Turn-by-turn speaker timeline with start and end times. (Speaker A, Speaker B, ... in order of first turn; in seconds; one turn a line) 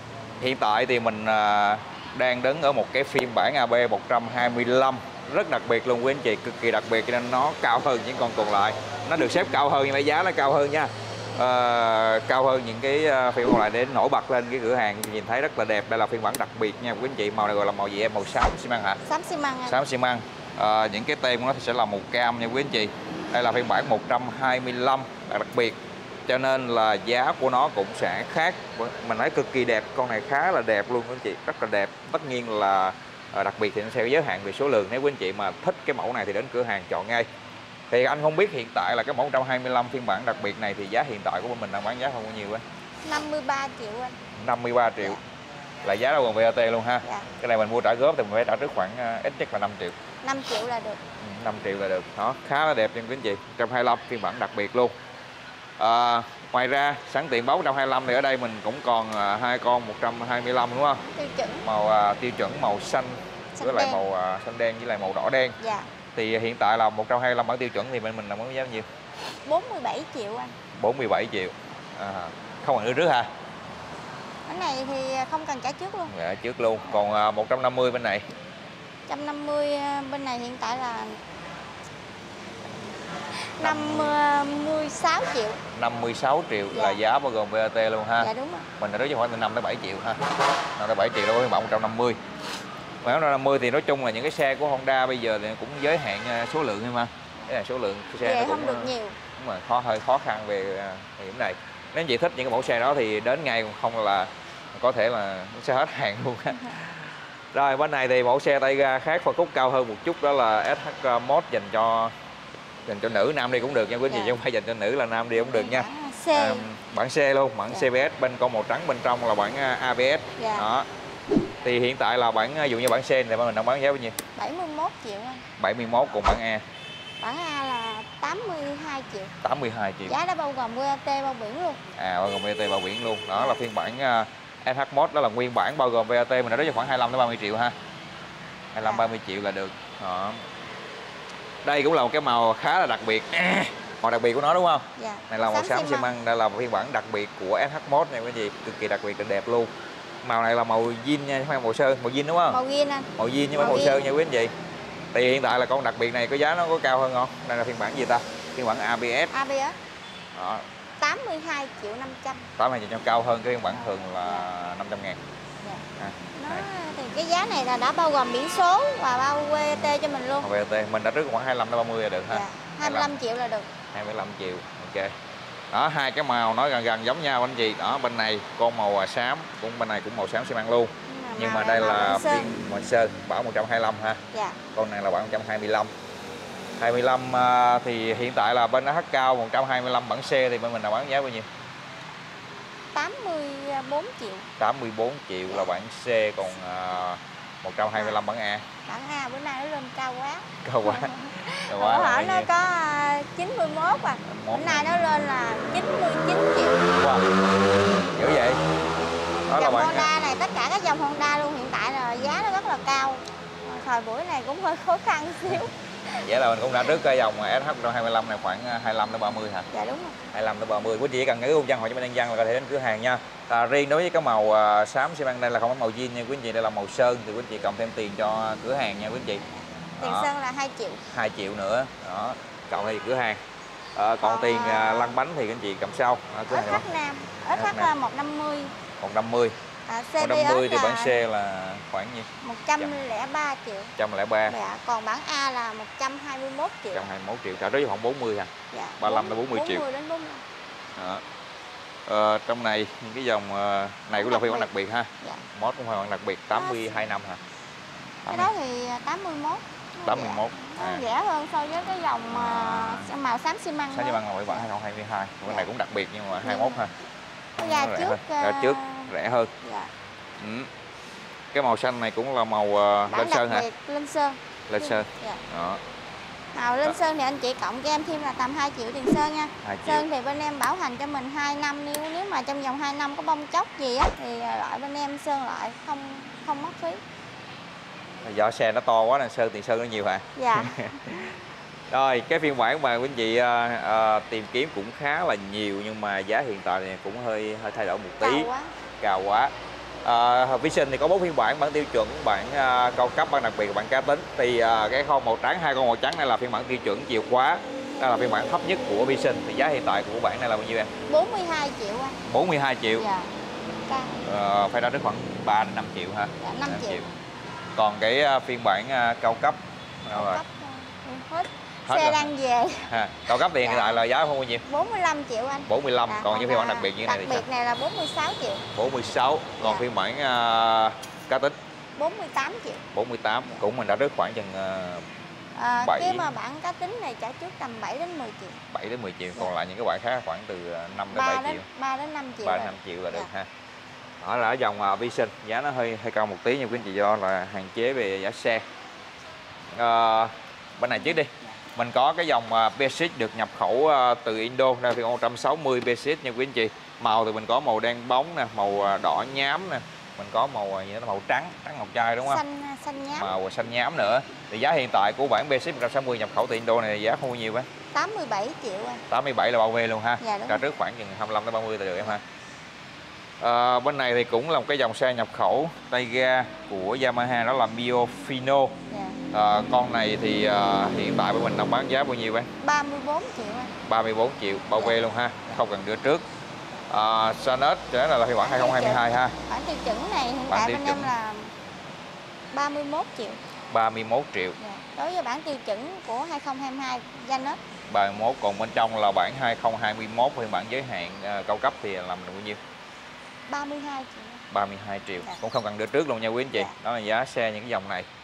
Speaker A: 0.4-19.0
Speaker B: 19.0-19.8
Speaker A: 19.7-25.8
Speaker A: 26.3-37.3
Speaker A: 37.9-42.6
Speaker B: 43.0-44.2
Speaker A: 44.4-45.2
Speaker A: 45.8-50.0
Speaker B: 47.0-47.3
Speaker B: 50.2-51.0
Speaker A: 51.2-54.9
Speaker A: 55.8-61.0
Speaker B: 61.0-61.7
Speaker A: 61.6-65.6
Speaker B: 63.6-64.0
Speaker B: 65.6-65.9
Speaker A: 66.2-68.8
Speaker B: 69.4-70.5
Speaker A: 70.7-73.3
Speaker B: 74.5-76.1
Speaker A: 76.1-78.2
Speaker B: 79.1-81.2
Speaker B: 83.5-85.6
Speaker A: 83.6-84.1
Speaker A: 85.7-90.2
Speaker B: 86.7-87.0
Speaker B: 88.2-88.7
Speaker A: 90.8-92.2
Speaker A: 93.0-112.1
Speaker B: 98.2-99.2
Speaker A: 112.8-120.9
Speaker B: 114.1-114.3
Speaker B: 115.5-116.6
Speaker B: 120.4-120.7
Speaker A: 121.6-124.2
Speaker B: 124.3-125.4
Speaker A: 125.6-126.6
Speaker B: 127.2-129.3
Speaker A: 129.4-130.2
Speaker B: 130.1-131.8
Speaker A: 131.9-137.7
Speaker B: 133.3-133.6
Speaker A: 138.7-140.4
Speaker B: 138.8-139.1
Speaker A: 141.6-149.7
Speaker B: 144.9-146.1
Speaker A: 150.2-152.6
Speaker B: 152.5-154.1
Speaker A: 153.2-154.5
Speaker A: 155.1-159.3
Speaker B: 159.3-159.8
Speaker A: 160.3-160.6
Speaker B: 161.0-162.4
Speaker A: 162.6-165.2
Speaker B: 163.7-164.5
Speaker B: 165.6-170.5
Speaker A: 166.0-166.7
Speaker A: 170.4-173.1
Speaker B: 172.3-173.7
Speaker A: 173.9-175.1
Speaker A: 175.7-184.2
Speaker B: 181.1-182.5
Speaker B: 184.3-184.6
Speaker A: 184.7-185.9
Speaker A: 186.8-191.5
Speaker B: 192.9-194.5
Speaker A: 194.6-198.6
Speaker B: 198.8-206.8
Speaker A: 200.6-202.5
Speaker A: 204.2-204.8
Speaker A: 207.0-207.3
Speaker A: 208.0-208.6
Speaker A: 209.5-210.1
Speaker B: 209.5-216.3
Speaker A: 216.2-219.7
Speaker B: 219.7-220.2
Speaker A: 220.3-229.4
Speaker A: 230.0-230.3
Speaker B: 230.0-231.0
Speaker A: 231.1-233.4
Speaker A: 233.9-236.8
Speaker B: 234.2-235.2
Speaker B: 236.5-238.7
Speaker A: 237.5-237.9
Speaker A: 239.0-239.5
Speaker B: 239.8-241.2
Speaker A: 240.2-242.3
Speaker B: 242.4-243.9
Speaker A: 242.8-243.0
Speaker A: 244.0-244.6
Speaker B: 244.5-247.1
Speaker A: 246.9-249.8
Speaker B: 248.7-250.4
Speaker A: 250.9-251.2
Speaker A: 252.1-257.4
Speaker B: 254.2-254.7
Speaker B: 256.5-256.8
Speaker A: 258.2-258.5
Speaker B: 258.3-264.6
Speaker A: 260.0-261.1
Speaker A: 262.3-263.1
Speaker A: 263.9-266.9
Speaker B: 266.4-266.9
Speaker A: 267.6-269.5
Speaker B: 267.6-269.9
Speaker A: 270.4-270.7
Speaker A: 271.5-273.7
Speaker B: 273.1-275.4
Speaker A: 274.7-275.8
Speaker B: 276.5-287.0
Speaker A: 279.6-280.1
Speaker A: 288.2-291.3
Speaker B: 290.4-291.0
Speaker A: 291.9-299.5
Speaker B: 298.2-298.7
Speaker A: 300.0-310.9
Speaker B: 311.0-312.2
Speaker A: 312.2-313.1
Speaker B: 313.0-313.3
Speaker B: 313.9-314.2
Speaker A: 314.2-317.1
Speaker B: 316.4-317.1
Speaker A: 317.8-320.4
Speaker B: 320.1-324.0
Speaker A: 321.9-322.3
Speaker A: 322.9-324.6
Speaker B: 324.6-328.6
Speaker A: 325.7-327.4
Speaker A: 328.7-331.6
Speaker B: 329.6-329.9
Speaker B: 331.9-332.8
Speaker A: 332.9-335.0
Speaker B: 335.5-338.6
Speaker A: 335.8-336.3
Speaker A: 338.7-341.7
Speaker B: 341.1-343.3
Speaker A: 342.4-343.5
Speaker A: 344.2-348.6
Speaker A: 349.7-362.4
Speaker B: 351.0-351.5
Speaker B: 362.2-363.3
Speaker A: 363.1-367.7
Speaker B: 367.9-369.0
Speaker A: 369.1-372.2
Speaker B: 370.2-370.6
Speaker A: 373.4-378.7
Speaker B: 378.9-379.2
Speaker A: 379.3-382.5
Speaker B: 382.6-383.7
Speaker A: 383.8-386.2
Speaker B: 384.8-385.0
Speaker A: 386.9-389.4
Speaker B: 388.4-391.5
Speaker A: 390.5-391.1
Speaker B: 392.5-393.4
Speaker A: 393.7-394.6
Speaker B: 394.6-397.6
Speaker A: 397.9-402.6
Speaker B: 403.5-404.4
Speaker A: 404.5-408.1